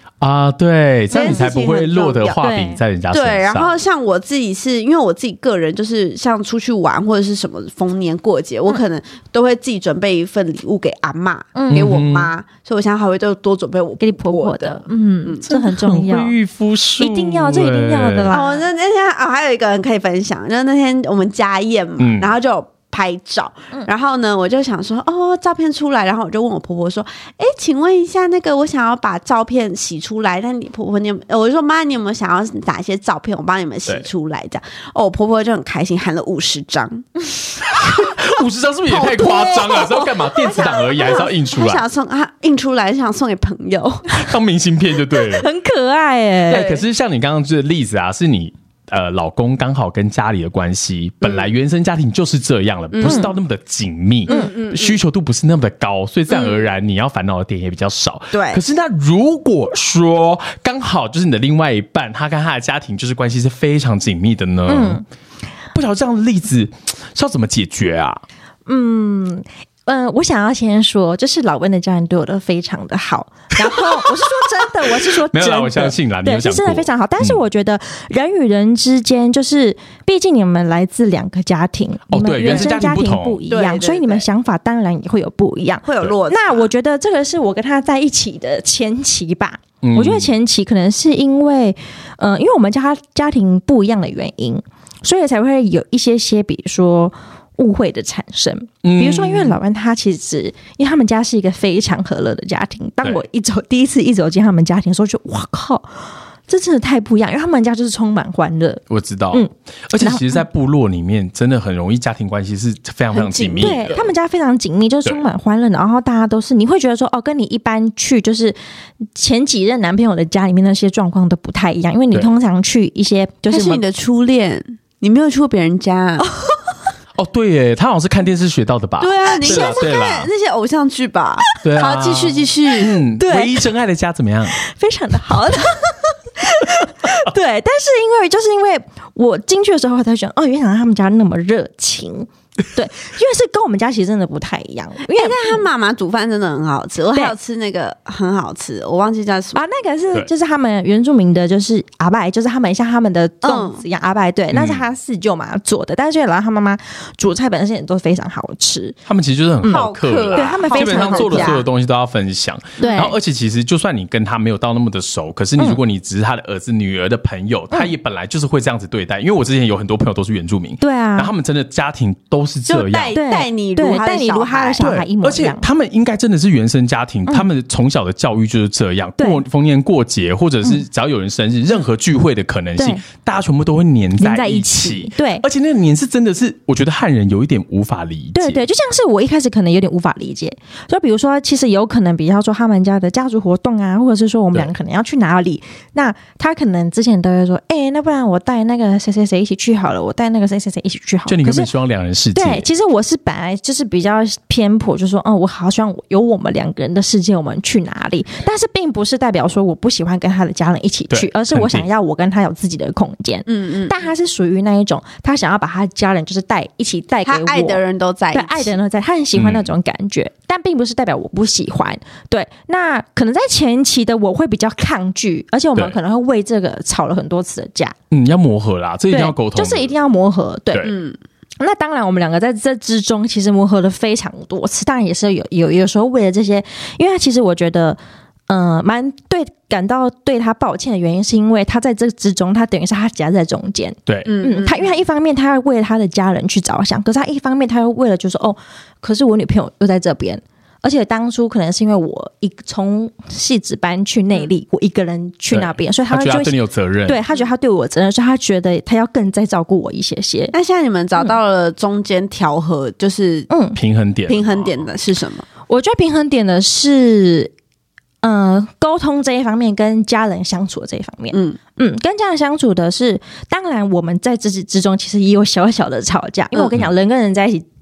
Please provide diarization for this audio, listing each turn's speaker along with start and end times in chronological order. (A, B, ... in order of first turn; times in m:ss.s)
0:00.2-0:03.8 A
0:01.1-0:02.4 B
0:02.4-0:02.8 C
0:03.1-0:15.5 B
0:11.6-0:11.9 C
0:11.7-0:12.3 A
0:14.0-0:16.4 C
0:15.5-0:18.4 A
0:17.0-0:18.6 C
0:18.3-0:37.1 B
0:22.0-0:22.3 A
0:37.6-0:41.8 A
0:38.9-0:44.3 B
0:39.2-0:39.8 C
0:44.1-0:45.5 A
0:45.2-0:46.8 C
0:46.5-1:05.0 A
0:52.9-0:53.3 B
0:53.0-0:53.3 C
0:54.3-0:55.0 B
0:58.3-0:58.6 B
1:04.7-1:05.0 C
1:05.7-1:08.2 A
1:08.7-1:50.4 C
1:13.6-1:14.1 A
1:14.9-1:17.4 A
1:22.1-1:23.4 A
1:22.5-1:22.7 B
1:23.5-1:24.3 B
1:25.8-1:26.7 B
1:29.8-1:30.3 A
1:38.8-1:39.6 A
1:48.9-1:54.1 A
1:53.1-1:54.0 B
1:53.6-1:58.6 C
1:59.2-2:03.8 C
2:03.5-2:06.3 B
2:06.2-2:06.8 C
2:07.2-2:10.3 A
2:09.0-2:12.9 B
2:09.4-2:09.8 C
2:11.6-2:14.6 A
2:13.2-2:13.7 C
2:14.5-2:25.6 C
2:25.1-2:29.6 B
2:29.6-2:39.0 C
2:33.4-2:33.8 B
2:34.5-2:34.8 A
2:39.1-2:53.2 A
2:39.6-2:41.6 C
2:39.7-2:41.6 B
2:42.8-2:43.1 C
2:50.8-2:51.3 C
2:52.7-2:54.9 B
2:53.1-2:55.6 C
2:54.8-3:08.6 A
3:04.2-3:05.4 C
3:08.4-3:21.7 C
3:21.3-3:22.7 A
3:22.4-3:48.0 C
3:31.1-3:31.9 A
3:33.5-3:34.0 B
3:37.2-3:38.8 B
3:39.3-3:39.7 A
3:48.1-3:49.9 A
3:49.1-3:50.9 C
3:50.8-3:51.2 B
3:51.6-4:16.6 C
4:04.3-4:04.9 B
4:15.5-4:17.2 A
4:17.1-4:20.5 C
4:20.5-4:23.5 B
4:23.5-4:23.8 C
4:23.8-4:24.8 A
4:24.3-4:25.5 B
4:25.7-4:27.5 C
4:28.2-4:37.7 C
4:31.3-4:31.6 B